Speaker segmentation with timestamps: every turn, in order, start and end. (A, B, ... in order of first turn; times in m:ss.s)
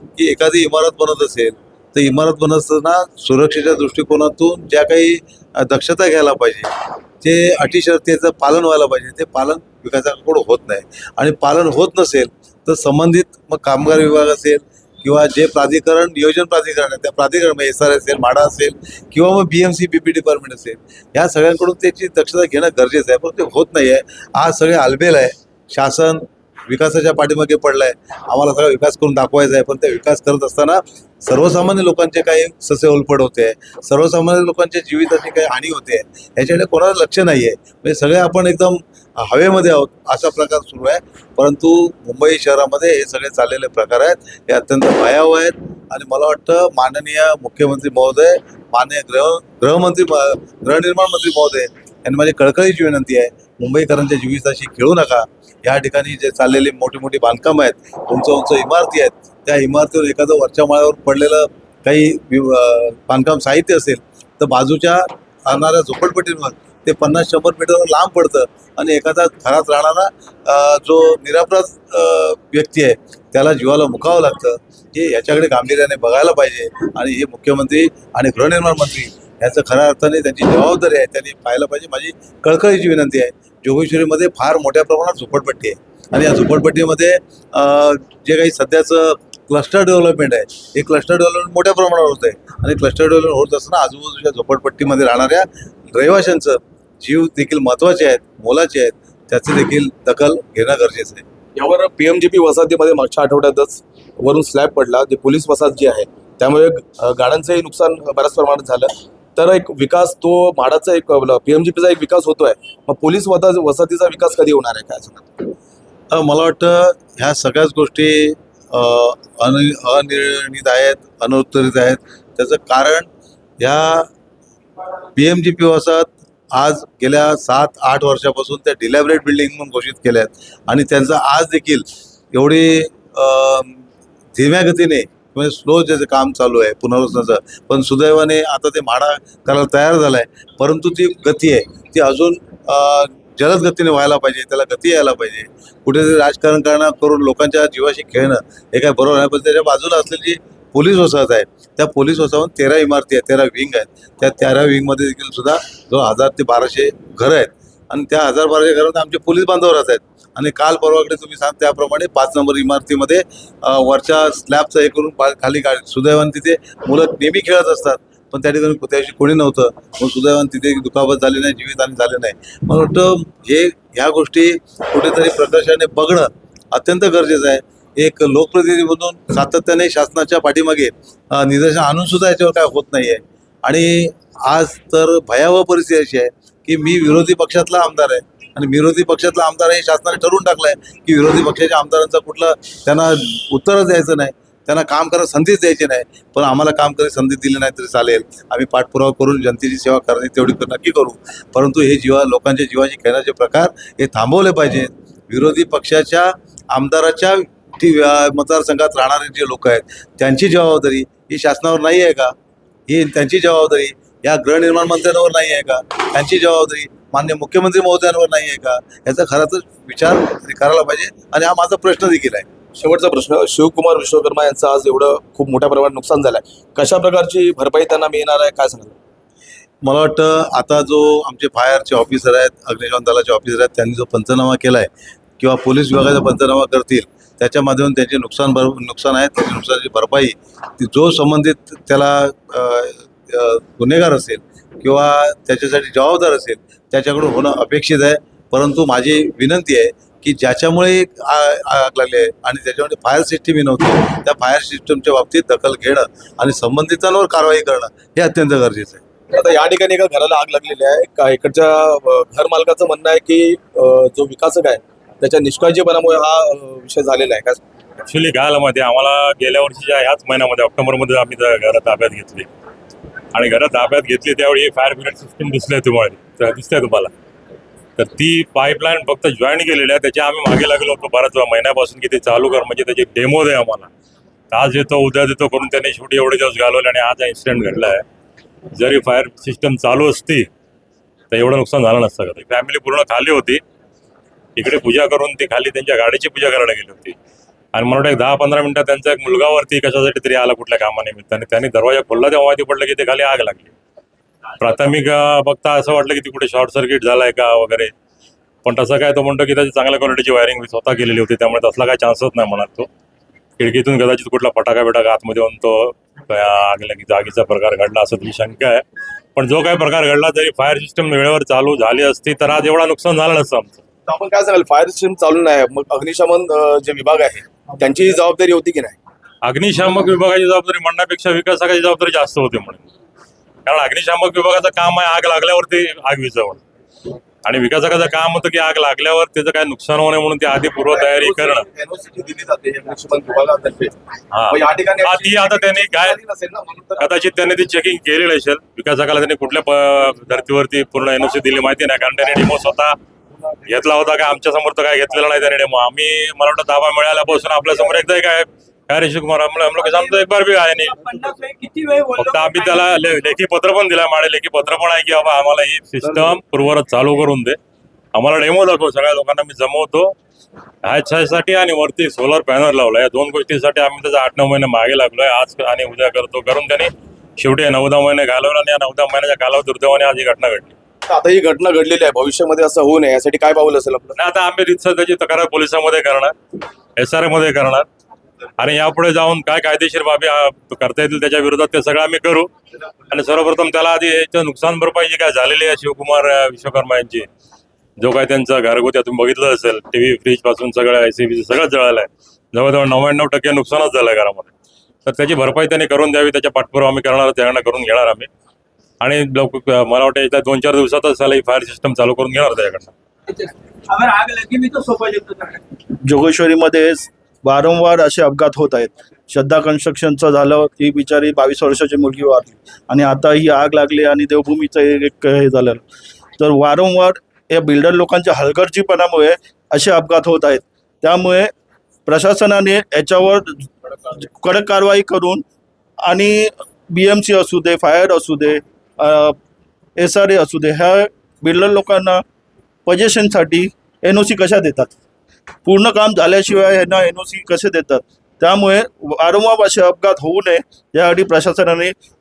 0:00.2-1:41.2 A
1:41.6-1:55.4 B
1:56.1-2:03.1 A
2:03.6-2:04.1 A
2:05.2-2:13.8 A
2:14.3-3:32.3 A
3:32.9-3:42.4 A
3:42.8-3:49.0 B
3:49.8-4:19.0 A
4:19.3-4:27.6 B
4:28.0-4:32.5 C
4:33.3-4:37.1 C
4:38.0-4:43.9 C
4:44.5-4:48.0 C
4:48.7-4:50.5 C
4:51.3-4:53.6 C
4:54.6-4:57.2 C
4:57.7-5:03.7 C
5:04.6-5:07.9 C
5:08.6-5:12.9 C
5:13.6-5:18.8 C
5:19.3-5:23.8 C
5:24.1-5:29.0 B
5:29.4-5:32.8 C
5:33.6-5:36.6 C
5:37.4-5:41.6 C
5:40.8-5:44.0 B
5:44.3-5:46.2 C
5:44.5-5:47.1 B
5:47.0-5:53.0 C
5:53.6-6:01.0 C
5:59.8-6:03.2 D
6:02.2-6:07.6 C
6:08.1-6:10.2 C
6:10.8-6:20.7 C
6:21.1-6:24.2 B
6:24.2-6:26.3 C
6:27.0-6:27.8 C
6:28.6-6:32.5 C
6:33.1-6:37.3 C
6:38.0-6:44.5 C
6:45.0-6:48.3 C
6:49.0-6:52.9 C
6:53.3-6:55.6 D
6:56.0-7:05.8 E
7:06.4-7:11.5 E
7:12.0-7:15.4 E
7:16.0-7:19.4 E
7:20.0-7:22.2 E
7:22.8-7:24.9 E
7:25.6-7:31.9 E